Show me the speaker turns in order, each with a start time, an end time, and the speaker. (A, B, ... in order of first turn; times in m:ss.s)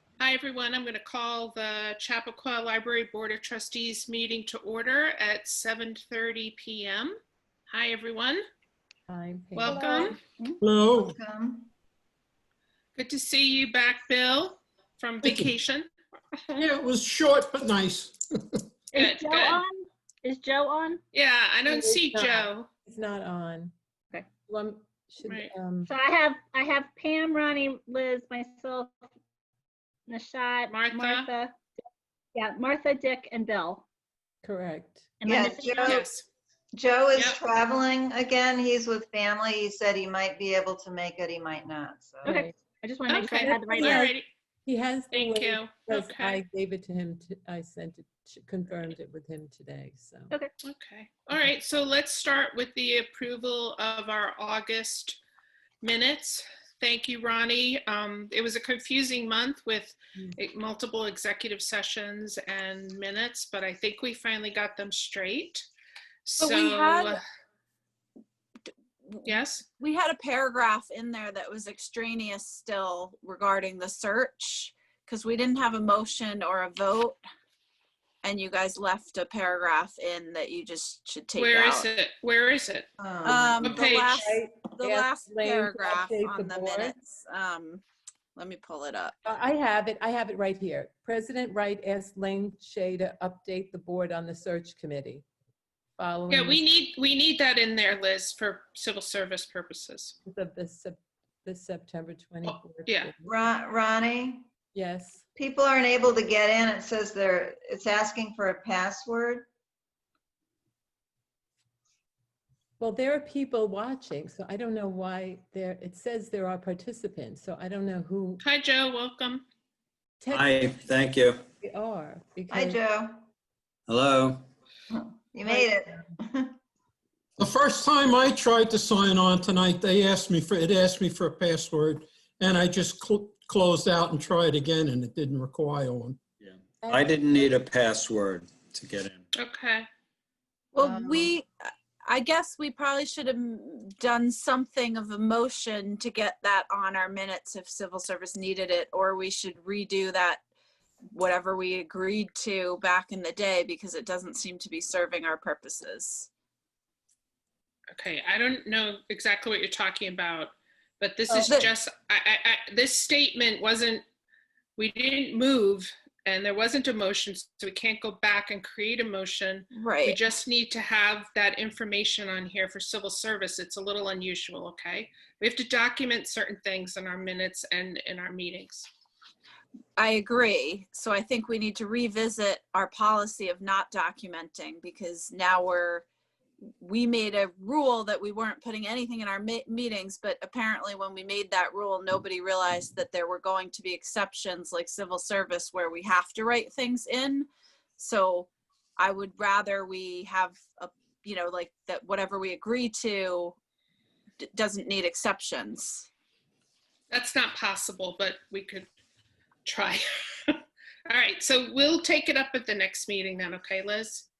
0:00.2-0:07.2 A
0:07.7-0:08.4 A
0:09.1-0:10.2 B
0:09.6-0:10.2 A
0:10.6-0:11.2 C
0:10.9-0:11.7 D
0:13.0-0:15.9 A
0:16.5-0:18.6 C
0:18.9-0:21.0 E
0:18.9-0:19.6 A
0:21.1-0:22.7 A
0:21.6-0:23.7 B
0:24.4-0:25.9 B
0:25.2-0:25.5 A
0:25.8-0:28.9 E
0:30.1-0:31.5 E
0:30.7-0:31.3 A
0:32.3-0:33.8 E
0:34.4-0:35.1 B
0:35.2-0:36.0 E
0:35.2-0:36.1 D
0:35.8-0:36.2 A
0:36.7-0:42.4 D
0:37.1-0:37.4 A
0:42.2-0:42.6 B
0:42.2-0:44.1 E
0:43.1-0:44.3 A
0:43.3-0:50.3 B
0:45.1-0:46.4 A
0:50.6-0:55.2 A
0:55.8-1:05.6 A
1:06.2-1:07.2 A
1:06.4-1:07.2 F
1:09.0-1:17.2 F
1:09.2-1:09.6 A
1:18.2-1:21.9 F
1:21.4-1:22.9 A
1:23.0-1:23.7 D
1:23.2-1:27.8 F
1:23.6-1:24.3 A
1:23.9-1:26.9 B
1:28.4-1:29.2 F
1:29.2-1:35.2 B
1:36.0-1:36.6 B
1:36.3-1:40.2 A
1:40.2-1:43.5 B
1:42.4-1:43.1 A
1:43.2-1:44.5 D
1:44.7-1:45.2 B
1:45.3-1:49.4 D
1:52.8-1:58.4 B
1:58.4-1:59.4 A
2:00.2-2:00.9 B
2:00.3-2:01.4 G
2:01.6-2:02.8 B
2:02.5-2:03.2 D
2:03.9-2:04.4 G
2:04.9-2:06.5 D
2:05.4-2:05.8 B
2:07.4-2:16.2 C
2:16.4-2:19.2 G
2:16.8-2:17.6 B
2:19.3-2:19.9 A
2:20.7-2:30.4 F
2:20.8-2:21.3 B
2:31.1-2:36.3 F
2:37.9-2:44.0 A
2:41.3-2:41.7 F
2:44.8-2:58.9 A
2:49.7-2:50.2 F
3:00.0-3:06.0 F
3:06.7-3:23.6 F
3:24.4-3:26.1 F
3:27.1-3:28.9 A
3:29.6-3:34.3 A